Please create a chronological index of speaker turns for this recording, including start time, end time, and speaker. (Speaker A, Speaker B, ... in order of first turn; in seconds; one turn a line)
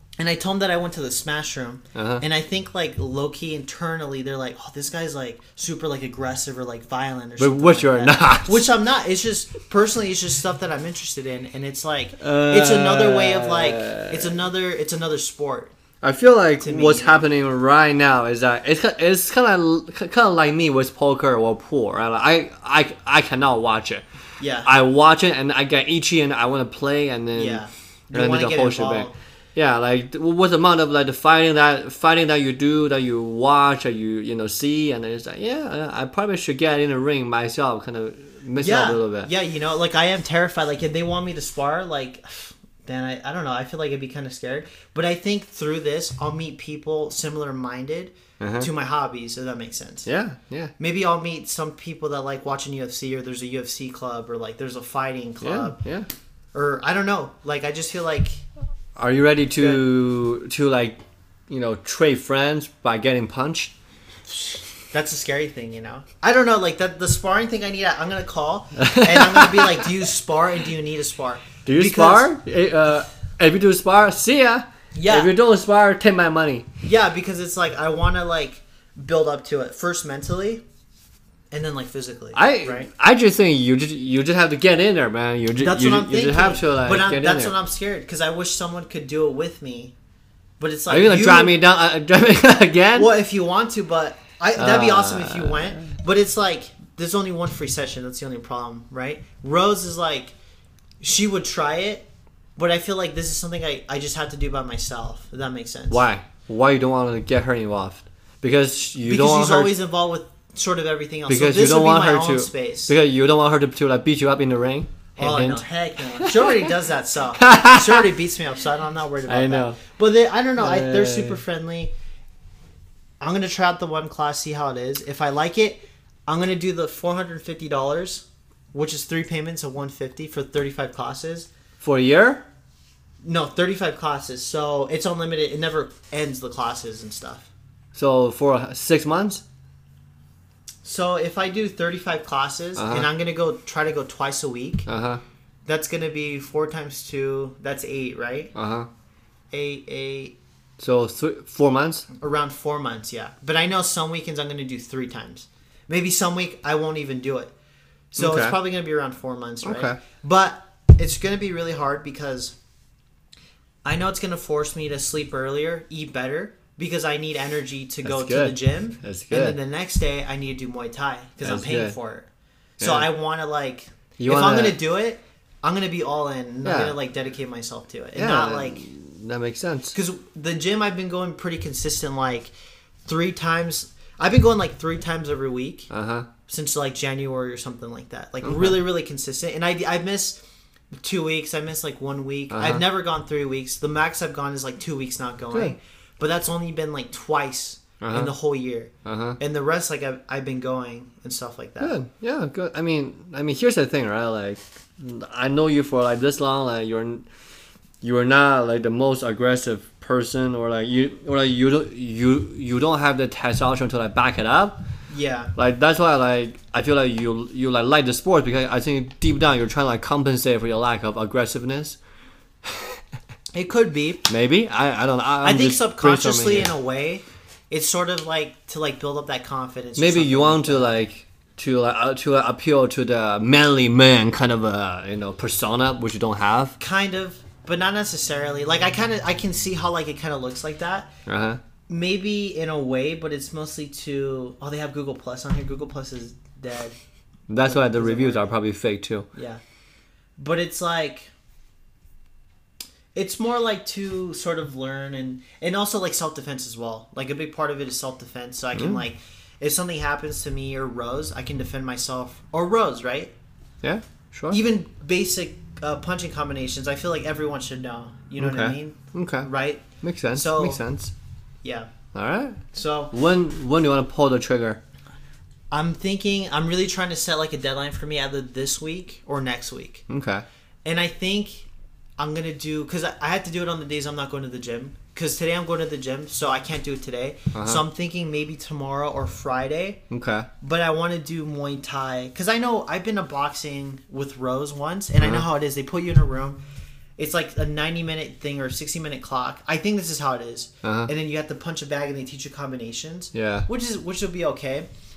Speaker A: 0.2-15.7
Speaker B: 1.9-2.2
Speaker B: 7.4-8.7
Speaker B: 12.2-14.4
Speaker B: 16.0-24.0
Speaker A: 16.6-17.2
Speaker A: 24.4-24.7
Speaker B: 24.6-39.3
Speaker A: 27.3-29.1
Speaker A: 38.6-50.1
Speaker B: 48.4-48.7
Speaker B: 50.0-50.7
Speaker A: 50.8-55.8
Speaker B: 55.4-56.1
Speaker A: 56.5-58.4
Speaker B: 59.0-61.0
Speaker A: 59.6-59.8
Speaker B: 61.5-63.7
Speaker A: 64.9-72.3
Speaker B: 68.8-69.9
Speaker B: 71.7-76.7
Speaker A: 74.9-75.3
Speaker A: 76.8-80.6
Speaker A: 81.5-82.9
Speaker B: 82.3-87.5
Speaker A: 85.6-89.9
Speaker A: 90.6-91.6
Speaker B: 90.9-93.1
Speaker A: 92.9-100.3
Speaker B: 94.5-95.9
Speaker A: 101.0-106.0
Speaker B: 105.9-109.7
Speaker A: 109.0-112.9
Speaker B: 111.3-116.7
Speaker A: 115.2-121.9
Speaker B: 117.4-118.1
Speaker B: 119.2-119.8
Speaker B: 120.6-121.4
Speaker A: 123.2-131.5
Speaker B: 131.8-132.4
Speaker A: 133.2-137.5
Speaker B: 137.9-139.4
Speaker A: 140.8-144.9
Speaker B: 142.8-143.1
Speaker B: 144.9-145.2
Speaker A: 145.7-148.5
Speaker B: 148.5-148.9
Speaker A: 149.5-150.3
Speaker B: 150.8-152.1
Speaker A: 152.2-157.5
Speaker A: 158.1-162.6
Speaker B: 158.2-158.6
Speaker B: 159.6-160.0
Speaker A: 163.8-172.3
Speaker B: 168.0-169.6
Speaker B: 171.4-171.9
Speaker B: 172.8-173.1
Speaker A: 172.8-178.8
Speaker B: 174.2-174.8
Speaker B: 176.6-176.9
Speaker B: 178.2-179.9
Speaker A: 179.9-182.5
Speaker A: 183.1-185.9
Speaker B: 185.9-186.3
Speaker A: 186.5-190.4
Speaker B: 188.4-188.8
Speaker A: 191.0-201.9
Speaker B: 192.5-192.8
Speaker B: 198.0-198.3
Speaker B: 199.0-199.4
Speaker B: 201.8-207.2
Speaker B: 208.0-214.8
Speaker A: 215.1-215.5
Speaker B: 215.6-222.0
Speaker B: 222.7-223.0
Speaker A: 223.5-224.3
Speaker B: 224.3-226.7
Speaker A: 225.4-231.0
Speaker B: 229.9-236.8
Speaker A: 236.8-241.1
Speaker B: 241.3-241.6
Speaker A: 241.9-246.9
Speaker B: 247.5-249.2
Speaker A: 247.6-248.5
Speaker A: 249.3-249.6
Speaker A: 250.4-251.3
Speaker A: 253.1-263.3
Speaker B: 258.7-259.0
Speaker B: 263.8-264.6
Speaker A: 264.5-270.8
Speaker B: 268.4-269.5
Speaker B: 270.0-271.1
Speaker A: 271.6-271.9
Speaker B: 272.1-272.6
Speaker A: 272.7-273.1
Speaker B: 273.1-274.8
Speaker A: 275.7-280.0
Speaker B: 280.1-280.4
Speaker A: 280.8-290.0
Speaker B: 287.5-287.8
Speaker B: 290.1-290.5
Speaker A: 290.6-296.6
Speaker B: 295.2-295.4
Speaker A: 297.2-304.9
Speaker B: 300.8-301.1
Speaker B: 303.3-303.7